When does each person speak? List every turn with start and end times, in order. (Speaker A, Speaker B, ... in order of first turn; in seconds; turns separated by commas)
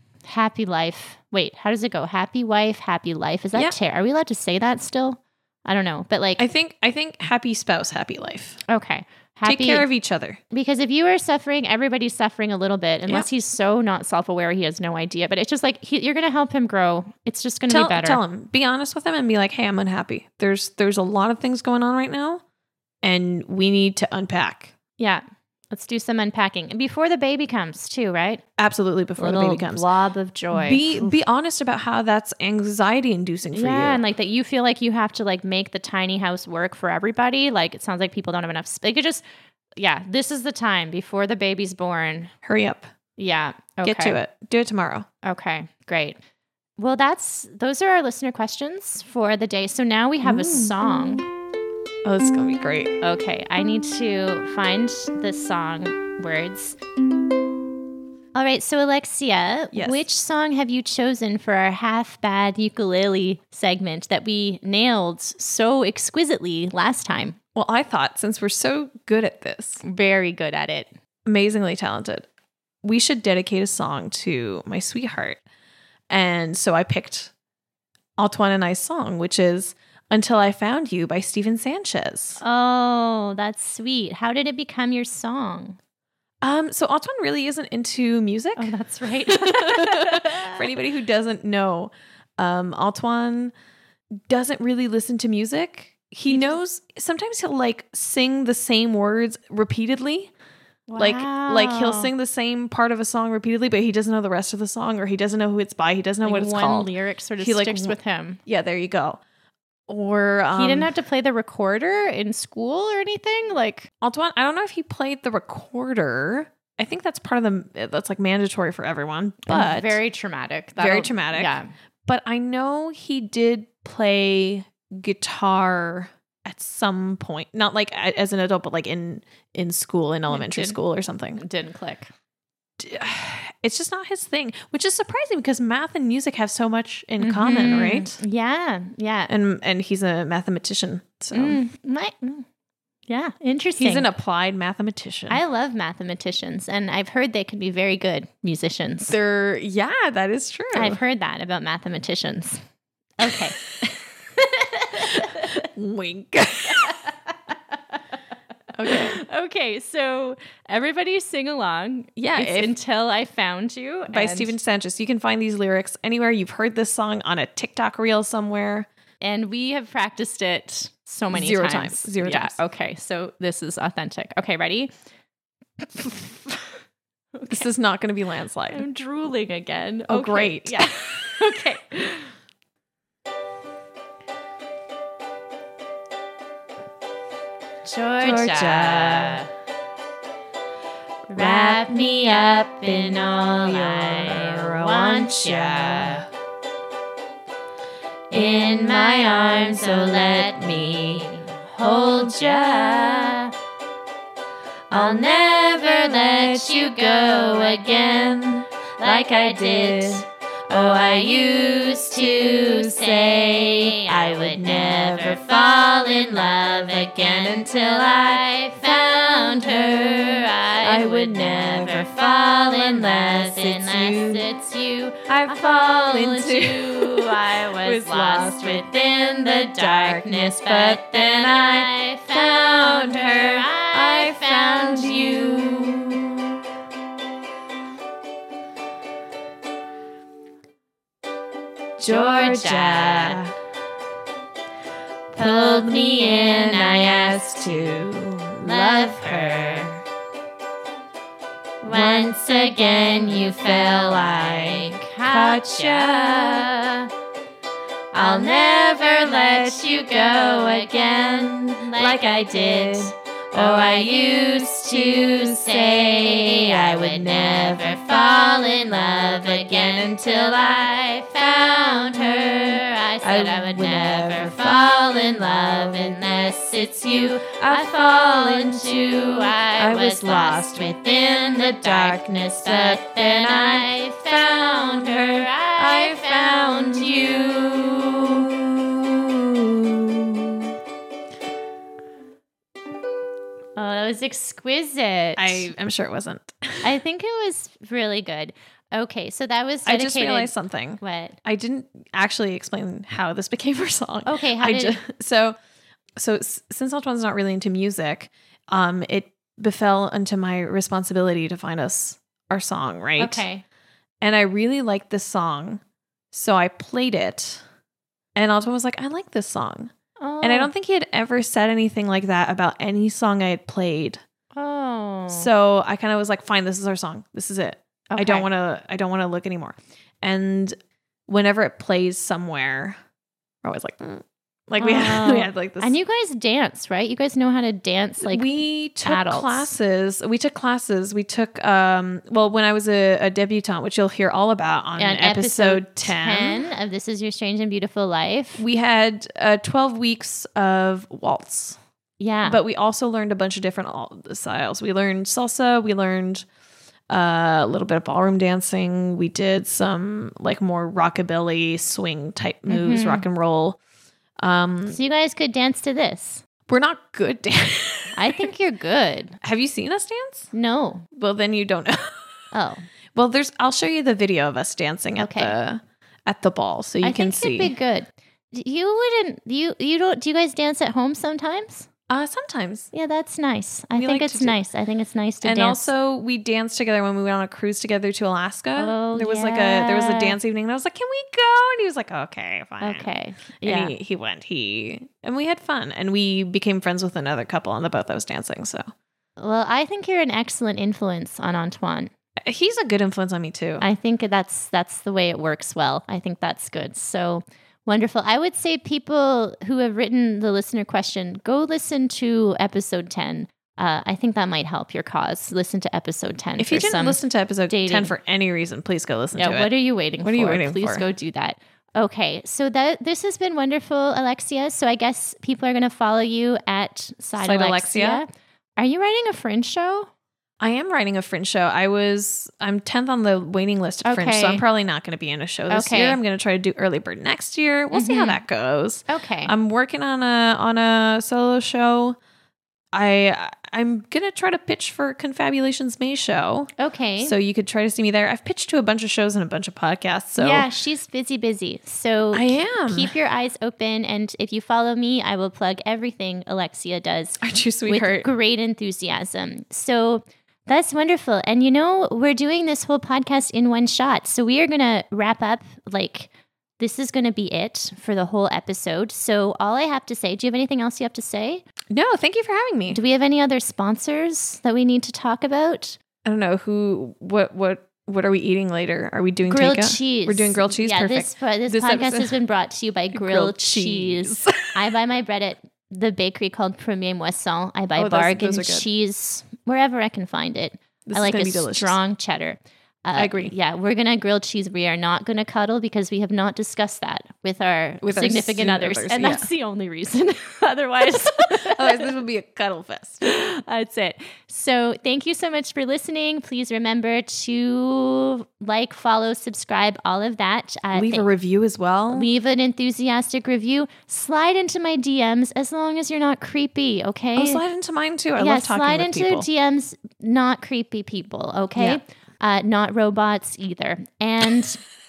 Speaker A: 0.3-6.5, Speaker B: 6.4-8.6, Speaker A: 8.7-9.9, Speaker B: 9.4-10.4, Speaker A: 10.5-18.2, Speaker B: 17.7-22.4, Speaker B: 23.0-24.7, Speaker A: 25.0-28.4, Speaker B: 28.6-29.9, Speaker A: 29.2-31.2, Speaker B: 30.5-34.0, Speaker A: 33.5-39.2, Speaker A: 39.8-42.3, Speaker B: 42.4-42.9, Speaker A: 43.2-44.2, Speaker B: 43.8-45.1, Speaker A: 45.2-46.2, Speaker A: 46.8-51.3, Speaker B: 50.2-50.9, Speaker B: 52.0-53.0, Speaker A: 53.0-56.8, Speaker A: 58.4-67.4, Speaker B: 59.7-60.0, Speaker B: 67.5-69.8, Speaker A: 69.8-70.9, Speaker B: 71.3-72.3, Speaker B: 72.8-75.4, Speaker B: 76.1-77.3, Speaker B: 78.2-82.4, Speaker A: 82.4-85.8, Speaker B: 86.4-93.5, Speaker A: 88.6-90.7, Speaker B: 94.2-100.3, Speaker A: 96.3-96.6, Speaker A: 100.9-102.1, Speaker B: 101.0-109.2, Speaker A: 106.2-108.4, Speaker B: 109.9-110.9, Speaker A: 110.5-113.9, Speaker B: 114.0-120.0, Speaker A: 119.5-121.7, Speaker B: 120.8-131.4, Speaker A: 130.3-130.8, Speaker A: 131.4-132.1, Speaker B: 132.8-138.2, Speaker A: 137.2-139.3, Speaker B: 139.3-141.6, Speaker A: 141.3-142.4, Speaker A: 143.1-144.1, Speaker B: 143.8-145.4, Speaker A: 145.3-149.2, Speaker B: 149.1-151.0, Speaker A: 150.7-152.6, Speaker A: 153.2-153.6, Speaker B: 153.3-153.9, Speaker A: 154.4-155.7, Speaker B: 155.0-157.0, Speaker A: 156.6-158.0, Speaker B: 158.7-159.2, Speaker A: 158.8-164.6, Speaker B: 162.2-162.7, Speaker B: 164.1-168.9, Speaker A: 169.2-174.9, Speaker B: 171.3-172.6, Speaker A: 176.0-176.3, Speaker A: 177.3-177.7, Speaker B: 177.5-178.8, Speaker A: 178.7-182.3, Speaker B: 180.1-180.9, Speaker A: 187.8-189.5, Speaker B: 188.2-189.4, Speaker A: 191.3-196.2, Speaker B: 191.4-192.1, Speaker B: 193.0-196.3, Speaker A: 198.3-203.5, Speaker B: 198.6-201.2, Speaker B: 202.0-203.4, Speaker A: 204.9-208.4, Speaker B: 204.9-218.5, Speaker A: 209.0-235.8, Speaker B: 219.1-224.5, Speaker B: 225.3-236.5, Speaker B: 242.0-243.5, Speaker A: 242.1-243.4, Speaker A: 245.3-248.0, Speaker B: 245.4-250.0, Speaker A: 248.6-250.0, Speaker A: 251.8-257.1, Speaker B: 251.9-252.4, Speaker B: 253.3-256.8, Speaker A: 258.1-287.6, Speaker B: 258.3-270.7, Speaker B: 273.2-276.4, Speaker B: 277.1-283.9, Speaker B: 284.9-290.7, Speaker A: 293.8-295.7, Speaker B: 295.4-296.9, Speaker A: 296.8-301.4, Speaker B: 299.9-305.6, Speaker A: 304.3-305.0, Speaker B: 306.2-313.5, Speaker A: 313.2-313.6, Speaker B: 314.2-315.8, Speaker B: 316.3-317.6, Speaker B: 318.4-324.2, Speaker A: 320.2-320.7, Speaker A: 324.6-325.5, Speaker B: 325.3-330.8, Speaker A: 328.1-328.5, Speaker B: 331.3-333.0, Speaker B: 333.6-335.9, Speaker A: 334.8-339.7, Speaker B: 338.2-346.7, Speaker A: 345.0-348.6, Speaker B: 348.6-351.8, Speaker A: 352.2-352.6, Speaker B: 352.4-356.5, Speaker B: 357.1-363.8, Speaker A: 362.7-363.2, Speaker B: 364.4-365.0, Speaker A: 364.9-366.4, Speaker B: 366.7-368.5, Speaker A: 368.1-369.4, Speaker B: 369.4-370.5, Speaker A: 370.5-371.1, Speaker B: 371.1-372.3, Speaker A: 372.5-372.9, Speaker B: 373.1-377.8, Speaker A: 375.2-375.6, Speaker A: 377.0-381.9, Speaker B: 382.1-382.9, Speaker A: 382.9-385.9, Speaker B: 383.9-384.6, Speaker B: 385.4-398.9, Speaker A: 388.8-390.4, Speaker A: 392.8-393.9, Speaker A: 399.4-402.1, Speaker B: 402.4-403.9, Speaker A: 403.8-418.1, Speaker B: 416.6-419.7, Speaker A: 419.3-428.3, Speaker B: 420.2-421.1, Speaker B: 427.4-428.2, Speaker A: 428.8-430.1, Speaker B: 430.6-442.2, Speaker A: 434.0-434.6, Speaker A: 435.7-436.2, Speaker A: 437.9-438.4, Speaker A: 439.1-439.5, Speaker B: 442.9-450.7, Speaker A: 446.8-447.4, Speaker A: 450.4-471.7, Speaker B: 452.3-453.1, Speaker B: 457.4-458.3, Speaker B: 471.9-473.0, Speaker A: 472.9-476.0, Speaker B: 476.2-482.4, Speaker A: 479.5-502.1, Speaker B: 483.1-484.8, Speaker B: 488.0-488.9, Speaker B: 491.1-492.0, Speaker B: 493.2-493.5, Speaker B: 498.0-499.5, Speaker B: 501.2-503.2, Speaker A: 503.2-511.3, Speaker B: 510.9-512.3, Speaker A: 512.1-517.6, Speaker B: 517.4-519.5, Speaker A: 518.4-524.8